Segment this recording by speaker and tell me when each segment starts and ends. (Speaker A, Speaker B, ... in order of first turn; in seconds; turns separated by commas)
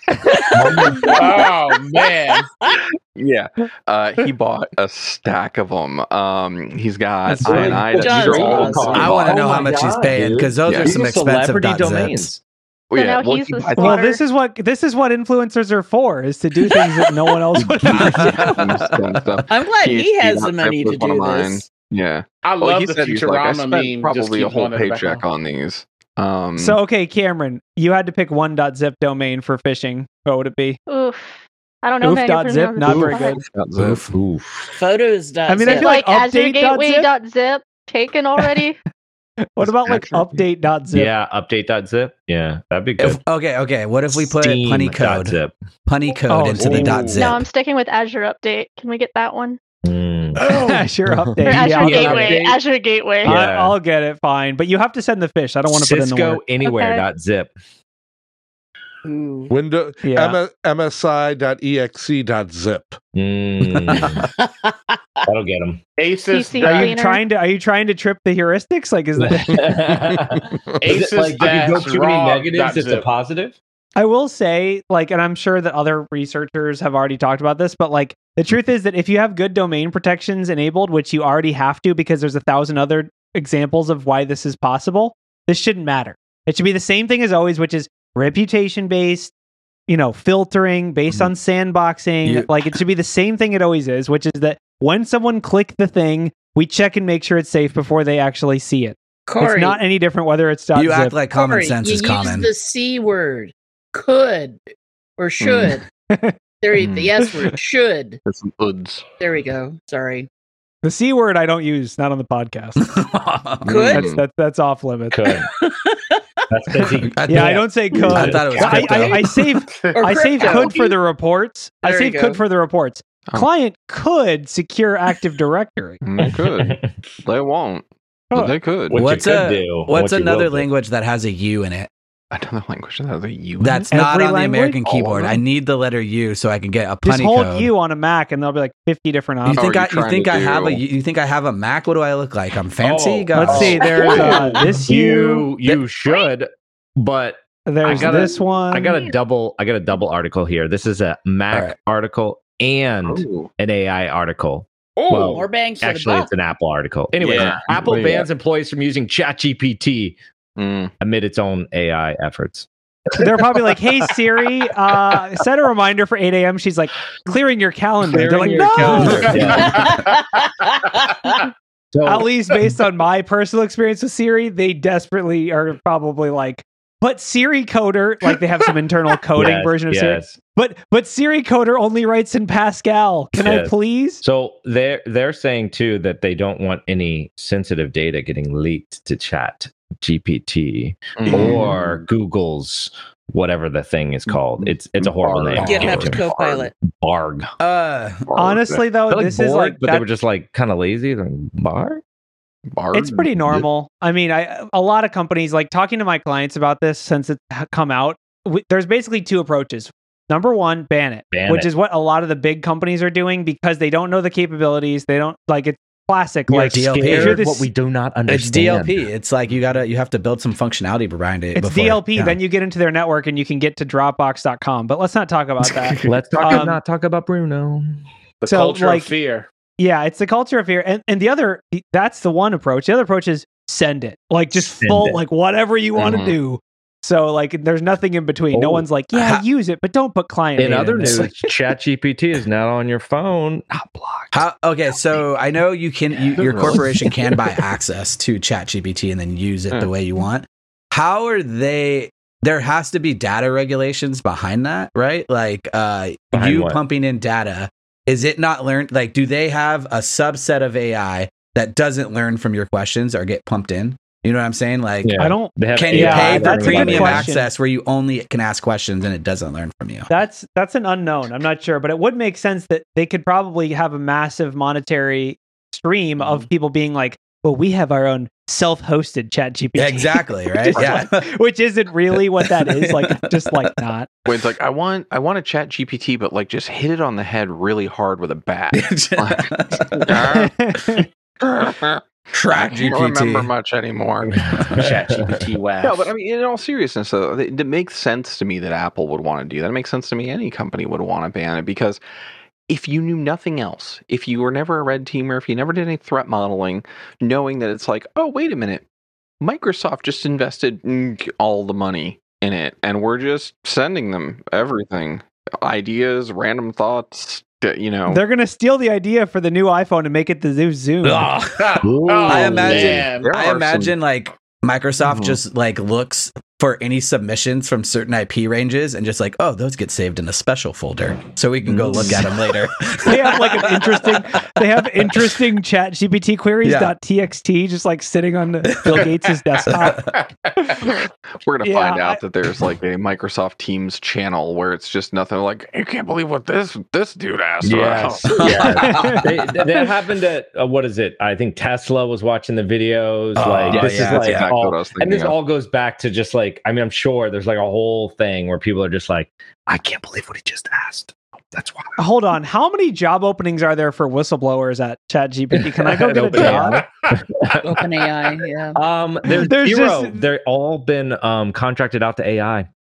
Speaker A: 0.5-1.4, Speaker B: 0.7-1.0, Speaker C: 0.7-1.2, Speaker D: 1.1-2.5, Speaker C: 2.7-9.6, Speaker E: 7.3-7.8, Speaker A: 7.4-12.4, Speaker B: 7.9-9.4, Speaker E: 8.9-12.3, Speaker C: 10.7-11.0, Speaker C: 12.9-14.0, Speaker F: 12.9-14.2, Speaker G: 13.8-18.6, Speaker C: 17.6-26.8, Speaker E: 18.0-19.0, Speaker B: 19.5-21.7, Speaker D: 22.4-25.2, Speaker G: 26.6-30.8, Speaker F: 30.9-33.4, Speaker G: 32.0-33.4, Speaker C: 33.1-34.0, Speaker E: 33.8-34.1, Speaker A: 34.1-34.8, Speaker B: 34.7-36.0, Speaker G: 35.5-37.1, Speaker F: 35.7-38.8, Speaker G: 39.5-41.1, Speaker C: 39.6-40.3, Speaker A: 40.9-43.2, Speaker E: 43.0-45.4, Speaker A: 44.1-45.5, Speaker E: 45.9-47.5, Speaker G: 46.3-47.2, Speaker D: 46.6-47.3, Speaker F: 47.1-49.6, Speaker A: 49.8-50.5, Speaker G: 50.4-52.4, Speaker D: 50.4-50.8, Speaker F: 51.4-53.4, Speaker A: 51.5-52.6, Speaker D: 51.9-52.5, Speaker A: 53.2-53.8, Speaker G: 53.2-56.4, Speaker A: 55.7-57.5, Speaker F: 56.6-57.1, Speaker B: 59.0-59.5, Speaker H: 59.5-63.0, Speaker G: 60.0-60.4, Speaker A: 63.1-64.3, Speaker E: 63.6-64.1, Speaker A: 65.3-65.8, Speaker D: 66.0-67.0, Speaker F: 66.3-67.3, Speaker G: 66.6-69.7, Speaker A: 69.2-73.6, Speaker D: 70.8-73.1, Speaker G: 74.0-89.3, Speaker G: 89.9-101.2, Speaker E: 92.2-92.5, Speaker B: 99.3-99.8, Speaker E: 100.8-102.5, Speaker B: 101.3-104.6, Speaker B: 105.2-105.8, Speaker C: 105.4-105.8, Speaker G: 106.1-106.4, Speaker B: 106.6-108.2, Speaker C: 106.8-107.1, Speaker C: 108.3-109.0, Speaker B: 109.2-110.3, Speaker G: 110.8-112.8, Speaker E: 112.8-113.9, Speaker B: 113.7-114.1, Speaker C: 113.7-114.2, Speaker G: 113.9-115.2, Speaker A: 115.1-115.5, Speaker B: 115.6-116.2, Speaker A: 116.5-117.5, Speaker E: 117.0-119.5, Speaker G: 117.3-126.0, Speaker A: 118.1-119.1, Speaker D: 119.7-120.6, Speaker B: 119.9-121.0, Speaker B: 121.8-122.4, Speaker C: 126.0-129.0, Speaker A: 126.2-126.9, Speaker A: 128.9-130.7, Speaker E: 128.9-131.9, Speaker C: 132.3-133.9, Speaker E: 133.6-137.7, Speaker G: 133.9-134.8, Speaker C: 134.8-135.4, Speaker G: 137.0-139.6, Speaker C: 139.5-140.8, Speaker E: 139.5-144.2, Speaker A: 142.8-160.2, Speaker G: 143.3-145.5, Speaker B: 144.0-144.7, Speaker G: 147.7-149.0, Speaker E: 151.5-151.8, Speaker C: 153.0-153.5, Speaker D: 155.0-155.5, Speaker B: 155.3-156.3, Speaker D: 157.2-157.7, Speaker C: 157.2-158.3, Speaker C: 160.6-160.9, Speaker A: 161.0-162.7, Speaker G: 163.2-169.6, Speaker A: 168.1-170.1, Speaker D: 168.5-170.5, Speaker E: 169.0-169.4, Speaker B: 169.6-171.3, Speaker A: 171.9-172.3, Speaker G: 172.1-184.2, Speaker A: 179.4-180.3, Speaker A: 183.4-196.3, Speaker C: 191.2-192.0, Speaker C: 194.3-196.7, Speaker B: 195.6-196.7, Speaker A: 196.8-197.5, Speaker E: 197.6-198.3, Speaker C: 198.3-198.8, Speaker G: 198.4-200.1, Speaker A: 199.1-202.0, Speaker C: 202.7-203.7, Speaker G: 202.9-217.7, Speaker A: 211.3-211.7, Speaker A: 216.5-219.0, Speaker E: 216.7-217.4, Speaker E: 218.3-222.4, Speaker G: 221.6-226.8, Speaker A: 226.0-228.0, Speaker D: 228.4-229.5, Speaker G: 228.5-229.1, Speaker G: 229.8-241.3, Speaker A: 234.5-235.2, Speaker C: 236.0-236.3, Speaker A: 238.5-238.9, Speaker E: 239.1-239.4, Speaker A: 240.6-244.4, Speaker E: 244.3-270.1, Speaker C: 246.4-247.3, Speaker A: 256.3-256.8, Speaker A: 265.0-267.3, Speaker G: 265.2-267.5, Speaker G: 270.1-284.1, Speaker E: 279.8-281.3, Speaker C: 280.8-281.0, Speaker E: 282.1-283.8, Speaker C: 284.3-290.5, Speaker E: 288.7-291.0, Speaker G: 290.3-291.1, Speaker C: 291.4-294.4, Speaker E: 292.3-293.5, Speaker A: 294.2-295.4, Speaker D: 294.7-296.1, Speaker C: 295.8-302.0, Speaker C: 302.7-308.8, Speaker C: 309.4-318.2, Speaker G: 318.1-321.3, Speaker E: 321.0-335.4, Speaker D: 321.6-323.3, Speaker A: 321.8-323.1, Speaker C: 322.7-324.0, Speaker C: 325.0-325.4, Speaker C: 331.7-332.3, Speaker G: 333.1-340.0, Speaker E: 336.6-336.9, Speaker E: 338.6-339.1, Speaker E: 339.7-340.1, Speaker D: 339.8-340.8, Speaker G: 340.6-340.9, Speaker C: 340.9-348.8, Speaker G: 341.6-342.2, Speaker A: 347.6-362.0, Speaker E: 348.3-349.3, Speaker G: 348.6-349.2, Speaker E: 353.4-354.5, Speaker C: 353.7-355.4, Speaker G: 362.0-366.8, Speaker A: 365.8-368.2, Speaker D: 366.4-367.1, Speaker B: 367.6-368.8, Speaker A: 368.8-372.7, Speaker G: 369.4-370.2